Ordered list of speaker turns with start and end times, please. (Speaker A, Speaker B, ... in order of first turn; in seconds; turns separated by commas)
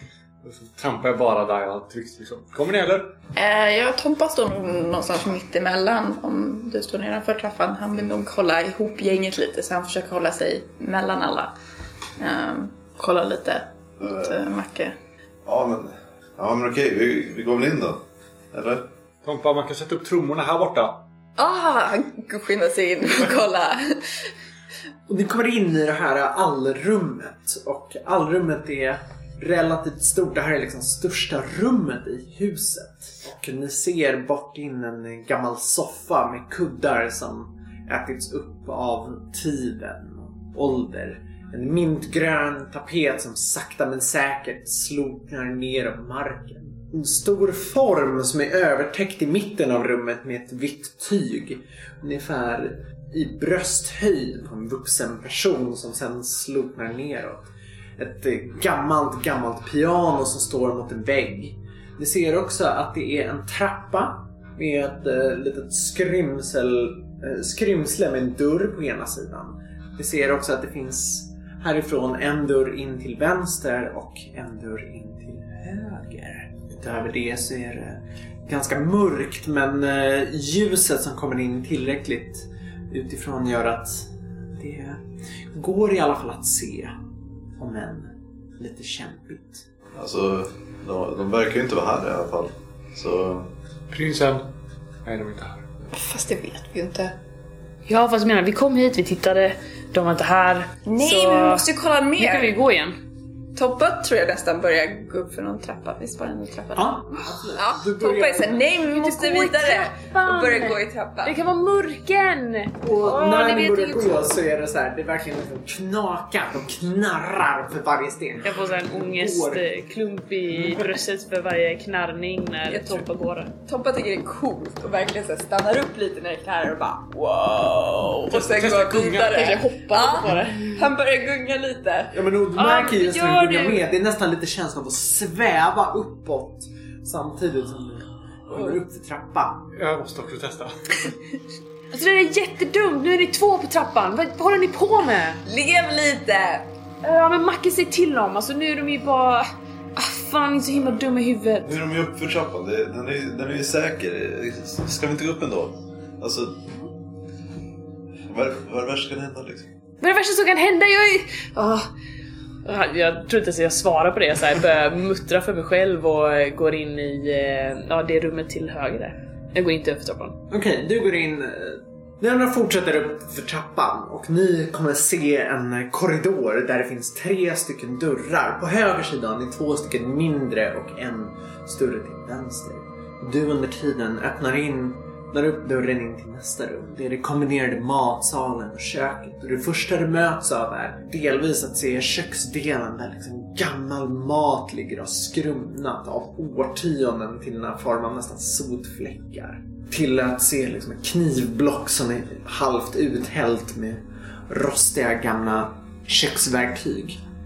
Speaker A: 0.4-3.2, Speaker B: 3.3-11.5, Speaker B: 12.2-14.9, Speaker C: 14.0-14.4, Speaker C: 15.4-18.9, Speaker A: 19.2-21.0, Speaker B: 21.4-24.2, Speaker D: 25.1-57.4, Speaker D: 58.0-86.9, Speaker D: 87.6-89.7, Speaker C: 89.9-93.5, Speaker A: 93.9-94.5, Speaker A: 95.0-95.6, Speaker B: 95.9-97.2, Speaker E: 97.9-101.6, Speaker B: 100.8-102.5, Speaker E: 102.2-103.0, Speaker B: 103.5-111.3, Speaker D: 106.8-108.6, Speaker E: 108.8-114.2, Speaker D: 112.8-119.7, Speaker E: 118.4-123.5, Speaker B: 122.7-132.1, Speaker A: 128.3-129.4, Speaker E: 129.2-130.8, Speaker D: 132.1-139.6, Speaker E: 132.5-133.8, Speaker A: 139.7-141.0, Speaker E: 141.9-145.4, Speaker B: 145.4-146.7, Speaker E: 147.0-151.8, Speaker C: 151.6-156.7, Speaker C: 158.3-159.7, Speaker E: 160.0-161.9, Speaker E: 162.6-170.4, Speaker D: 170.5-207.2